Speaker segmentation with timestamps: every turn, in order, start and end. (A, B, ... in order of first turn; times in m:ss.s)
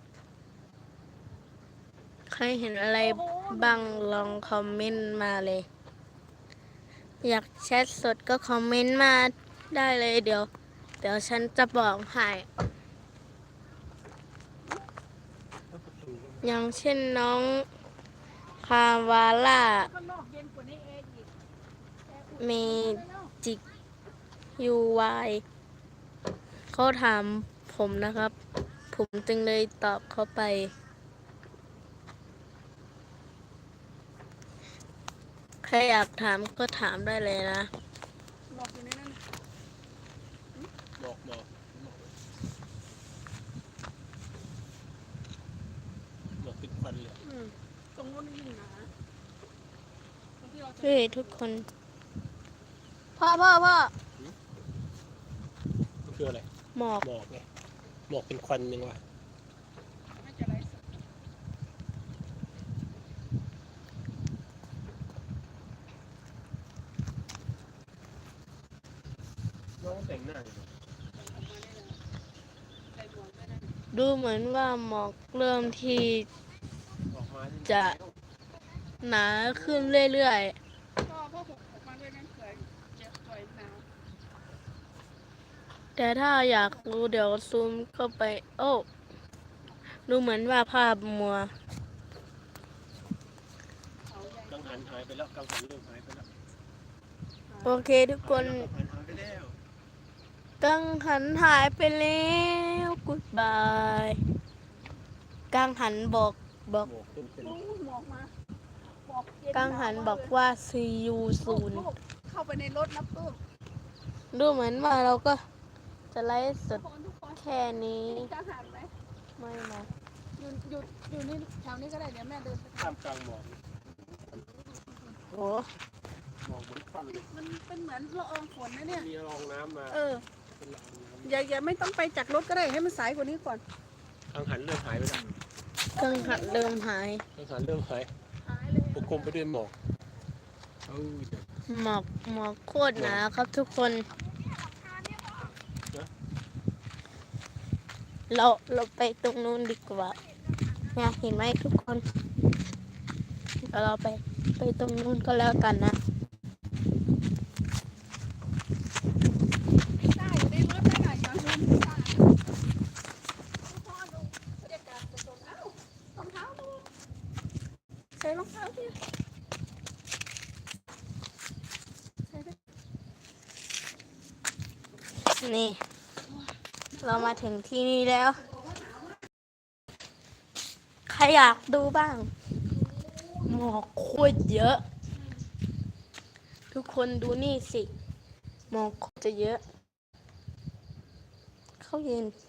0:02.3-0:05.7 A
0:03.0-0:05.3 B
0:07.2-0:10.5 A
0:11.0-0:12.5 A
0:15.7-0:16.4 C
0:16.4-0:17.7 A
0:18.6-0:19.9 A
0:19.8-0:21.3 B
0:22.1-0:23.3 B
0:22.4-0:23.6 A
0:24.6-0:25.4 A
0:26.7-0:28.3 A
0:28.9-0:30.7 A
0:35.6-0:37.7 A
0:38.5-0:39.2 B
0:41.0-0:42.1 C
0:46.4-0:47.2 C
0:47.2-0:48.9 B
0:50.4-0:51.4 B
0:50.8-0:51.7 A
0:53.2-0:53.9 A
0:56.0-0:56.5 C
0:56.7-0:57.1 A
0:57.0-0:57.4 C
0:58.1-0:59.0 C
1:00.1-1:01.0 B
1:09.8-1:10.7 C
1:11.1-1:12.0 B
1:12.9-1:13.7 B
1:13.9-1:16.3 A
1:17.1-1:18.2 C
1:17.6-1:18.0 A
1:19.0-1:20.6 A
1:19.5-1:20.0 C
1:21.0-1:23.8 B
1:26.0-1:28.9 A
1:30.1-1:31.5 A
1:34.1-1:34.7 B
1:34.5-1:36.3 C
1:37.5-1:37.9 B
1:37.6-1:38.7 A
1:38.2-1:39.6 C
1:40.6-1:44.2 A
1:45.5-1:46.9 A
1:46.8-1:47.6 C
1:47.4-1:48.3 B
1:49.0-1:50.4 B
1:49.5-1:51.9 A
1:51.4-1:53.4 B
1:54.3-1:55.4 A
1:56.1-1:56.8 A
1:56.7-1:57.4 B
1:57.4-1:58.3 A
1:58.1-1:58.9 B
1:59.4-1:59.9 A
2:00.4-2:03.0 B
2:02.8-2:03.6 C
2:04.3-2:05.2 B
2:05.3-2:05.7 A
2:06.4-2:07.3 C
2:07.3-2:09.1 B
2:08.9-2:10.0 C
2:09.9-2:10.2 B
2:10.6-2:11.4 C
2:11.2-2:13.6 B
2:14.3-2:15.3 C
2:16.0-2:16.7 B
2:16.0-2:17.2 A
2:17.4-2:18.1 C
2:18.4-2:19.4 B
2:18.9-2:19.7 C
2:20.9-2:21.5 C
2:21.7-2:24.1 A
2:23.0-2:23.2 C
2:24.5-2:25.5 B
2:28.3-2:30.2 A
2:30.9-2:32.0 A
2:33.7-2:36.0 A
2:40.0-2:42.2 B
2:43.6-2:46.9 B
2:48.2-2:49.0 B
2:55.4-2:55.8 A
2:57.0-2:57.3 B
2:57.0-2:58.4 A
2:58.4-2:59.2 B
3:01.1-3:02.3 A
3:03.4-3:04.8 A
3:06.7-3:07.9 A
3:08.7-3:09.6 A
3:11.8-3:12.3 A